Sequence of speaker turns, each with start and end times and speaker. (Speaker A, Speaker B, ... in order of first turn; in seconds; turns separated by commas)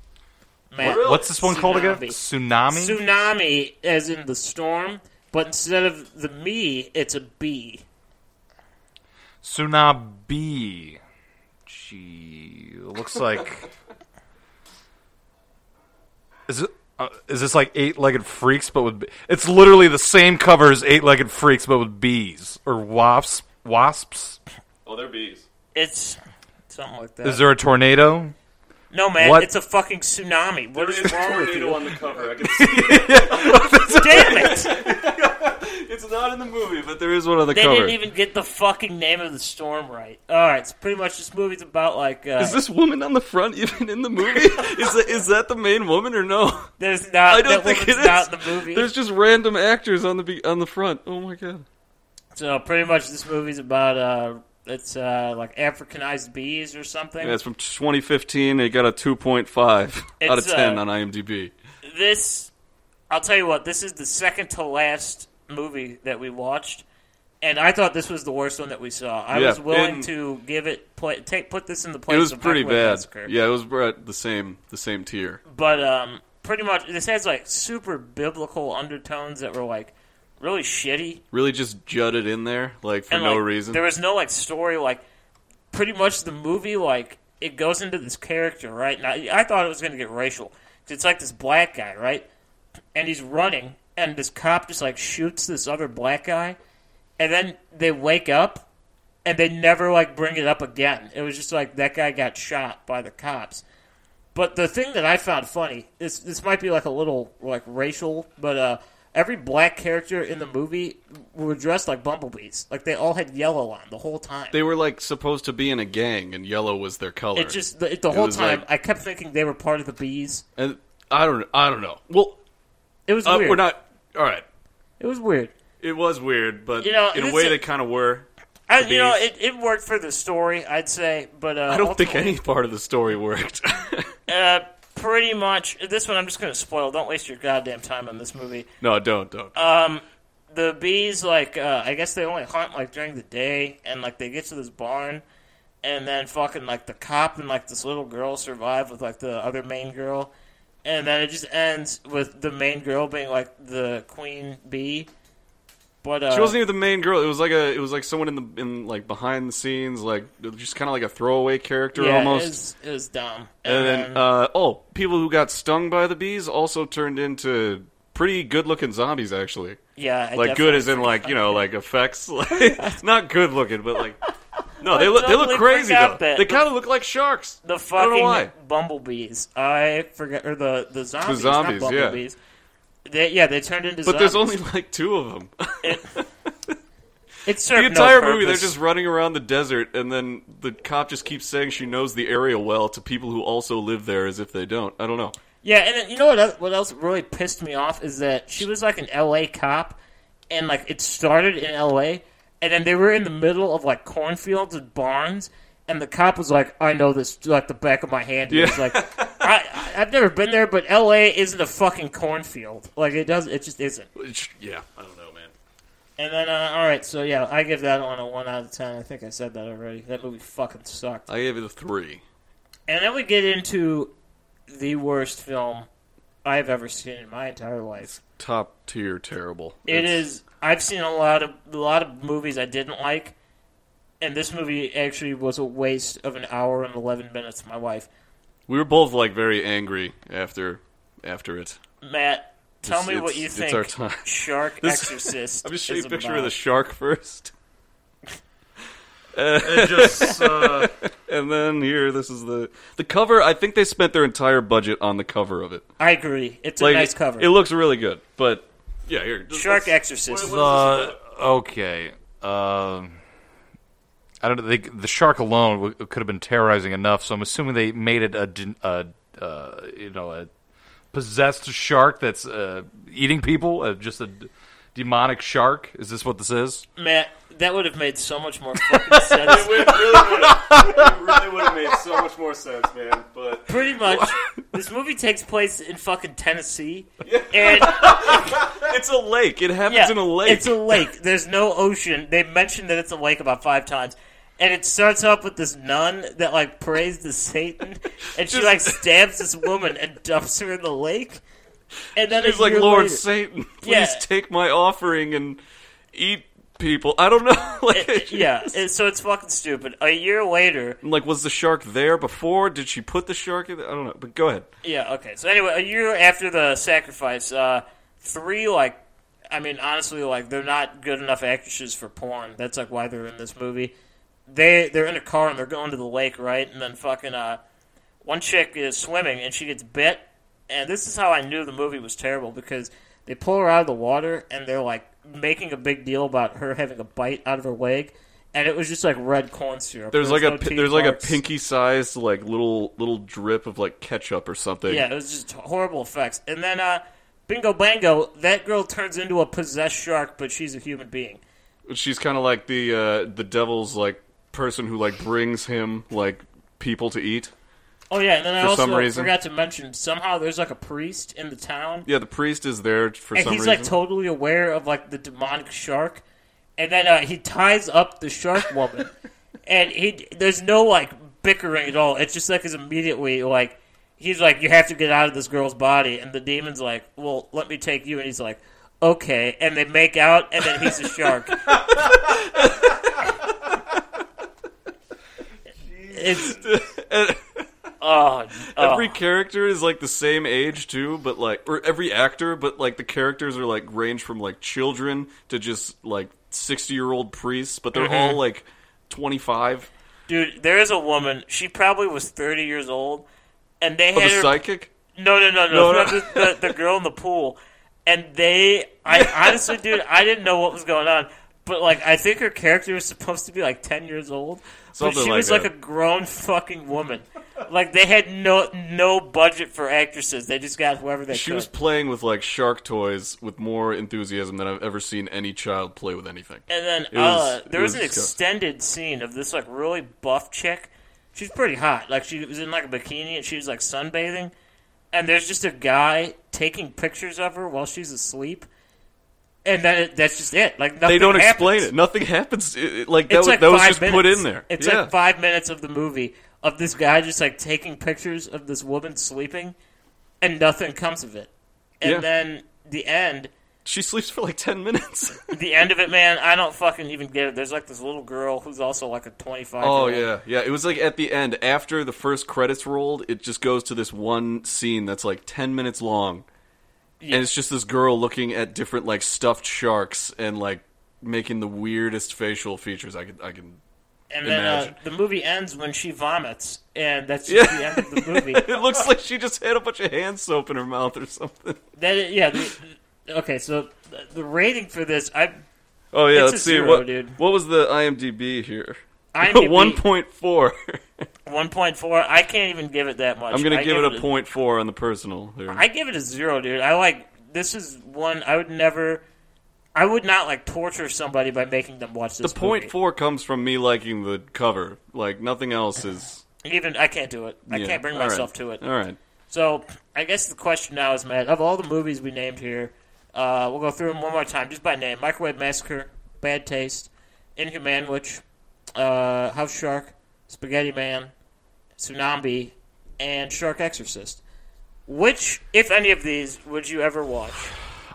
Speaker A: 0.7-2.2, Speaker B: 0.8-1.3, Speaker C: 0.8-3.0, Speaker A: 2.7-7.8, Speaker C: 9.4-11.0, Speaker C: 11.7-13.7, Speaker C: 16.5-24.4, Speaker B: 24.8-25.4, Speaker A: 25.7-26.2, Speaker A: 26.7-27.4, Speaker C: 27.2-28.3, Speaker A: 28.9-31.9, Speaker C: 29.2-29.5, Speaker B: 30.8-38.0, Speaker C: 32.4-34.9, Speaker A: 33.9-34.7, Speaker A: 37.5-42.6, Speaker B: 42.4-46.7, Speaker A: 46.8-48.9, Speaker B: 47.3-51.6, Speaker A: 52.3-57.4, Speaker B: 57.2-61.5, Speaker A: 60.2-60.8, Speaker A: 61.8-62.5, Speaker A: 63.1-66.8, Speaker A: 67.4-73.3, Speaker B: 69.3-70.1, Speaker B: 72.1-75.4, Speaker A: 75.5-81.2, Speaker B: 81.3-83.8, Speaker A: 83.1-85.0, Speaker A: 85.7-92.2, Speaker A: 92.9-96.6, Speaker A: 97.2-98.6, Speaker A: 99.2-103.6, Speaker A: 104.3-114.6, Speaker B: 114.5-118.6, Speaker A: 117.3-120.4, Speaker B: 120.6-122.4, Speaker A: 123.1-123.7, Speaker B: 123.2-124.4, Speaker A: 125.0-125.5, Speaker B: 125.8-128.3, Speaker A: 126.8-127.6, Speaker A: 128.7-132.4, Speaker B: 128.8-129.2, Speaker B: 131.7-134.1, Speaker A: 134.3-138.7, Speaker B: 138.8-139.7, Speaker A: 139.5-145.2, Speaker A: 145.8-150.3, Speaker A: 150.8-155.1, Speaker A: 156.0-156.6, Speaker B: 156.3-162.6, Speaker A: 161.9-164.2, Speaker B: 163.7-169.8, Speaker A: 169.9-171.7, Speaker B: 170.3-174.2, Speaker B: 174.8-178.5, Speaker A: 174.8-176.7, Speaker A: 177.6-182.4, Speaker B: 181.2-182.2, Speaker A: 183.0-184.6, Speaker B: 184.0-186.7, Speaker A: 185.8-186.1, Speaker A: 187.4-188.8, Speaker B: 187.7-195.3, Speaker A: 195.6-200.0, Speaker A: 200.5-214.1, Speaker B: 208.5-209.5, Speaker B: 214.2-215.5, Speaker A: 216.2-221.3, Speaker B: 221.3-222.2, Speaker A: 222.9-224.1, Speaker A: 224.7-225.9, Speaker A: 226.4-228.1, Speaker B: 228.0-230.2, Speaker A: 229.9-233.3, Speaker A: 234.2-238.1, Speaker B: 238.7-241.8, Speaker A: 242.0-246.5, Speaker B: 242.8-244.3, Speaker B: 244.8-247.5, Speaker B: 249.3-255.9, Speaker C: 249.6-250.9, Speaker A: 256.0-257.5, Speaker B: 256.8-261.2, Speaker A: 259.5-260.6, Speaker C: 260.4-263.1, Speaker C: 264.4-270.5, Speaker C: 271.1-276.9, Speaker A: 277.0-280.1, Speaker B: 279.3-284.4, Speaker C: 279.9-281.0, Speaker A: 283.7-288.6, Speaker B: 287.2-291.1, Speaker A: 289.9-301.4, Speaker B: 298.4-299.0, Speaker A: 302.1-303.2, Speaker B: 302.3-305.6, Speaker A: 303.8-304.2, Speaker B: 306.1-308.7, Speaker A: 307.9-311.0, Speaker B: 311.0-314.7, Speaker A: 314.8-319.0, Speaker A: 319.5-323.9, Speaker A: 324.5-327.6, Speaker A: 328.2-341.4, Speaker B: 340.1-345.1, Speaker A: 344.9-351.4, Speaker B: 351.9-357.5, Speaker A: 358.1-362.1, Speaker B: 358.6-359.3, Speaker B: 362.1-363.9, Speaker A: 363.3-366.2, Speaker A: 366.8-369.1, Speaker A: 369.6-381.7, Speaker B: 381.9-382.9, Speaker C: 385.9-386.2, Speaker A: 386.1-386.6, Speaker B: 386.2-387.6, Speaker A: 388.0-389.2, Speaker B: 388.7-399.9, Speaker A: 397.9-398.4, Speaker A: 400.3-403.2, Speaker A: 403.8-404.6, Speaker B: 404.1-404.9, Speaker A: 405.1-421.7, Speaker B: 405.7-406.7, Speaker B: 409.1-409.7, Speaker B: 414.9-415.7, Speaker B: 421.3-428.3, Speaker A: 426.7-434.5, Speaker A: 435.1-438.7, Speaker A: 439.6-441.9, Speaker B: 441.0-445.1, Speaker A: 443.3-449.7, Speaker A: 450.4-451.5, Speaker A: 452.0-453.5, Speaker B: 453.8-455.4, Speaker A: 455.5-460.3, Speaker B: 459.8-466.4, Speaker A: 467.2-467.5, Speaker B: 467.3-473.8, Speaker A: 474.3-478.6, Speaker B: 474.4-474.9, Speaker B: 477.5-481.8, Speaker A: 482.0-485.6, Speaker B: 486.1-491.0, Speaker A: 486.3-487.4, Speaker A: 489.3-490.0, Speaker A: 491.4-494.2, Speaker B: 493.5-495.8, Speaker A: 495.7-499.2, Speaker A: 499.9-502.9, Speaker B: 502.4-506.4, Speaker A: 506.6-508.8, Speaker B: 507.7-509.2, Speaker A: 509.5-518.4, Speaker A: 519.0-521.3, Speaker A: 522.0-524.4, Speaker A: 525.1-527.7